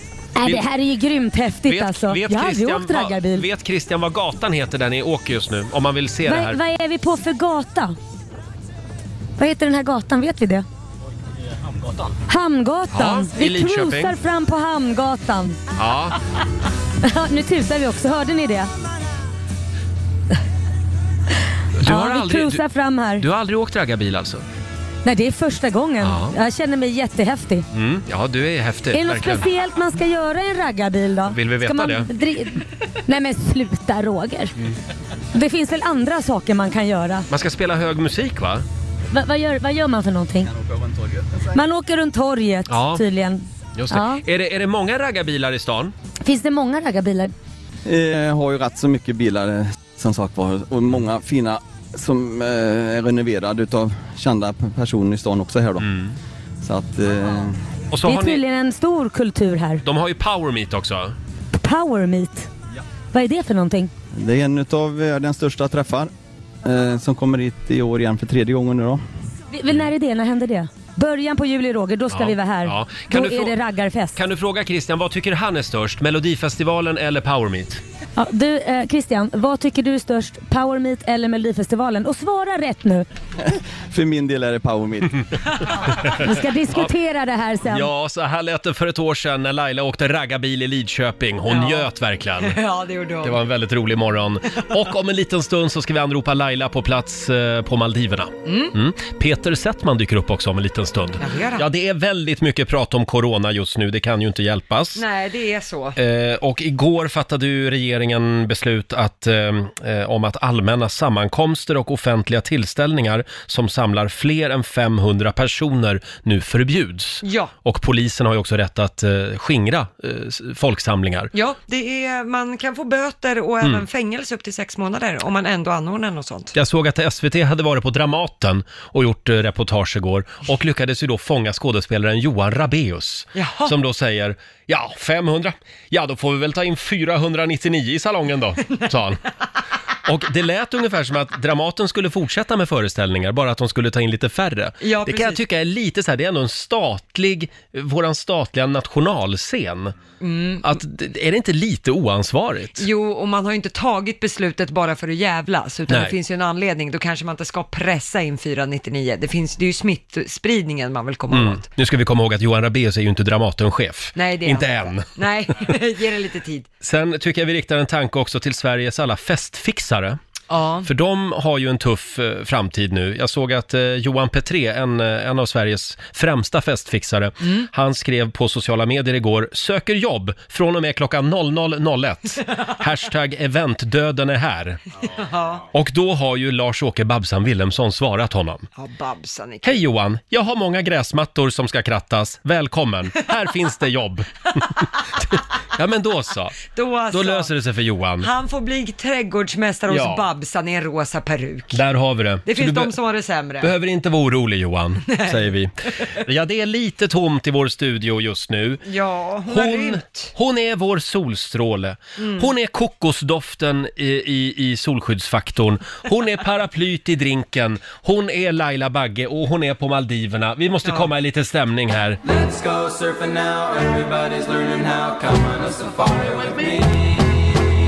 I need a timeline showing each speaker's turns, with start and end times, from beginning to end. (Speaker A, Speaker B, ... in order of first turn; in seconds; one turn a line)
Speaker A: 0.4-3.5
Speaker B: 1.7-6.6
Speaker A: 6.2-8.0
Speaker A: 9.4-10.6
Speaker A: 12.3-15.6
Speaker B: 12.9-14.2
Speaker B: 15.8-16.2
Speaker A: 17.0-18.7
Speaker B: 21.8-22.6
Speaker A: 21.8-23.2
Speaker B: 23.2-24.4
Speaker A: 25.0-27.6
Speaker B: 26.0-26.4
Speaker B: 27.7-29.5
Speaker A: 28.9-34.5
Speaker B: 31.2-32.1
Speaker A: 35.3-37.3
Speaker B: 37.3-38.6
Speaker A: 39.1-40.5
Speaker C: 40.4-41.6
Speaker A: 41.5-44.2
Speaker B: 42.7-43.0
Speaker B: 43.8-45.9
Speaker A: 46.2-47.3
Speaker C: 47.8-55.9
Speaker B: 55.8-56.1
Speaker C: 56.6-57.6
Speaker B: 57.9-58.4
Speaker A: 58.0-59.8
Speaker B: 59.8-61.1
Speaker A: 61.5-62.5
Speaker A: 63.1-63.9
Speaker C: 64.1-66.1
Speaker C: 66.6-69.0
Speaker A: 69.5-74.2
Speaker B: 72.1-73.5
Speaker B: 74.2-77.8
Speaker A: 78.2-83.0
Speaker C: 83.5-85.2
Speaker B: 85.9-86.9
Speaker A: 86.0-87.9
Speaker B: 87.7-92.6
Speaker D: 91.5-91.9
Speaker D: 92.4-93.4
Speaker B: 93.2-105.0
Speaker D: 98.5-98.7
Speaker D: 101.2-101.7
Speaker D: 105.0-106.0
Speaker B: 106.0-121.3
Speaker D: 117.2-117.5
Speaker D: 121.3-126.5
Speaker B: 126.5-139.2
Speaker D: 133.3-133.7
Speaker B: 140.0-149.9
Speaker D: 144.8-145.4
Speaker D: 150.2-150.7
Speaker B: 150.6-152.8
Speaker D: 152.8-161.7
Speaker B: 155.9-156.1
Speaker B: 161.3-165.1
Speaker D: 164.2-166.7
Speaker B: 166.8-170.2
Speaker D: 170.5-170.9
Speaker B: 170.8-184.8
Speaker D: 185.0-185.7
Speaker B: 185.7-188.7
Speaker D: 188.8-189.8
Speaker B: 189.6-198.3
Speaker D: 196.7-197.5
Speaker D: 198.2-201.8
Speaker B: 199.9-200.2
Speaker B: 201.7-202.9
Speaker D: 202.4-203.7
Speaker B: 203.6-208.8
Speaker D: 205.1-205.4
Speaker D: 208.8-210.3
Speaker B: 209.5-222.2
Speaker D: 212.2-212.5
Speaker E: 222.3-227.4